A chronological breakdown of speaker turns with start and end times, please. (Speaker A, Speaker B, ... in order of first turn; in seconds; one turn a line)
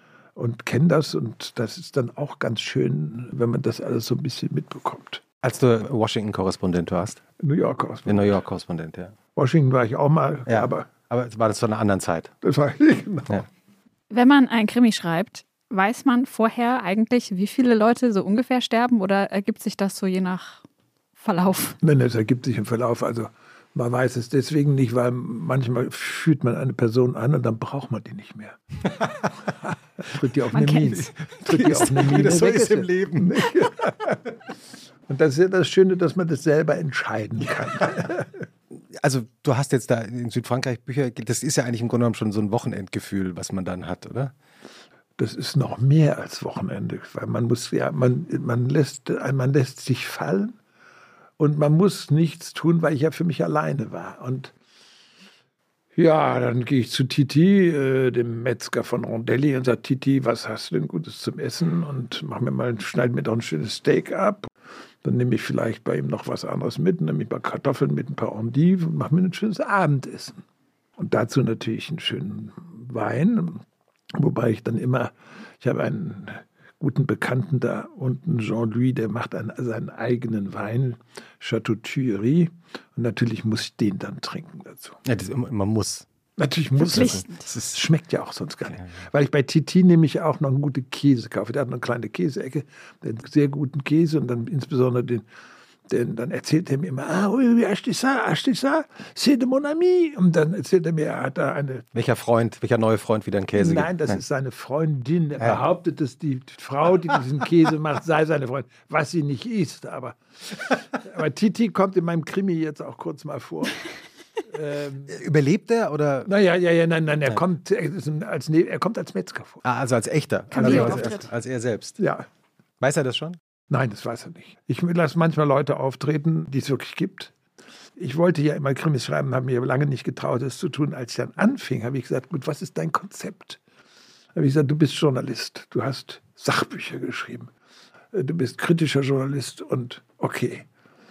Speaker A: 0.4-5.2
Speaker B: 5.4-7.2
Speaker A: 7.4-8.4
Speaker B: 8.1-9.2
Speaker A: 9.3-10.9
Speaker B: 10.5-12.3
Speaker A: 12.4-13.5
Speaker C: 14.1-20.6
Speaker C: 21.2-21.8
Speaker A: 21.8-28.6
Speaker A: 30.0-34.3
Speaker C: 30.5-31.1
Speaker B: 31.4-33.5
Speaker A: 35.1-38.4
Speaker B: 38.9-44.3
Speaker A: 45.2-50.5
Speaker A: 51.4-54.5
Speaker A: 56.0-64.5
Speaker A: 65.0-70.4
Speaker A: 71.0-73.6
Speaker A: 74.2-85.0
Speaker B: 85.0-86.1
Speaker A: 86.4-95.2
Speaker C: 86.8-87.5
Speaker B: 86.8-87.8
Speaker A: 95.9-101.8
Speaker B: 101.9-104.2
Speaker A: 103.5-113.8
Speaker A: 114.5-115.2
Speaker B: 115.1-116.3
Speaker A: 116.3-119.6
Speaker B: 119.6-122.0
Speaker A: 120.5-121.2
Speaker C: 120.5-121.2
Speaker A: 122.0-122.2
Speaker B: 122.8-123.4
Speaker A: 123.7-127.3
Speaker A: 128.0-133.6
Speaker A: 134.3-137.5
Speaker A: 138.1-140.7